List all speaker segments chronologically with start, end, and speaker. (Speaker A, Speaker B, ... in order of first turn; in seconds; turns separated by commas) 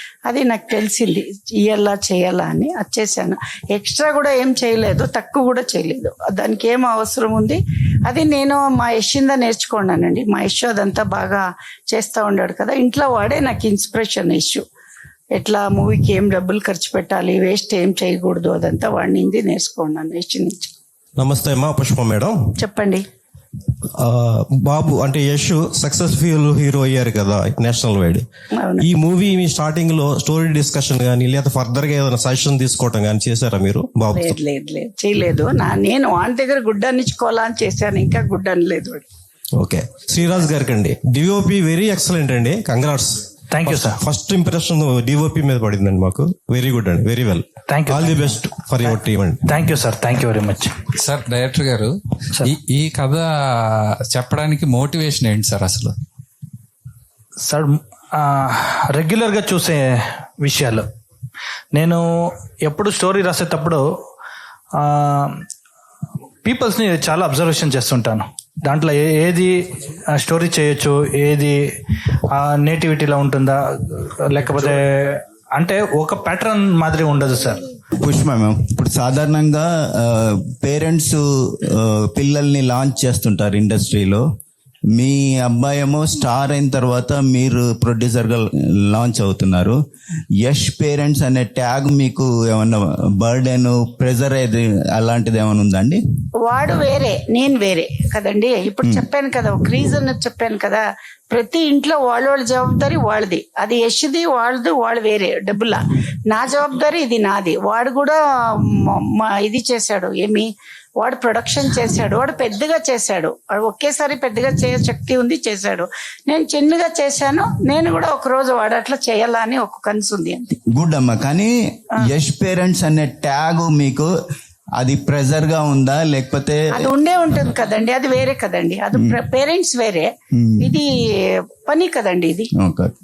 Speaker A: 0.3-14.7, Speaker A: 15.3-20.7, Speaker B: 21.2-22.3, Speaker A: 22.6-23.1, Speaker B: 24.0-28.2, Speaker A: 28.5-28.9, Speaker B: 28.8-34.4, Speaker A: 34.1-39.0, Speaker B: 39.6-49.4, Speaker C: 43.5-44.0, Speaker C: 47.7-50.7, Speaker D: 50.9-56.0, Speaker C: 57.5-59.9, Speaker C: 60.4-60.9, Speaker C: 61.7-62.0, Speaker C: 62.6-63.8, Speaker C: 64.8-65.3, Speaker C: 66.4-69.5, Speaker C: 70.2-71.5, Speaker C: 72.3-73.6, Speaker C: 74.3-77.7, Speaker E: 78.0-84.2, Speaker E: 85.0-89.8, Speaker E: 90.4-96.0, Speaker A: 96.4-120.6, Speaker E: 98.8-99.0, Speaker E: 120.7-124.1, Speaker E: 124.8-127.0, Speaker A: 126.8-132.5, Speaker E: 130.3-130.7, Speaker E: 132.6-132.9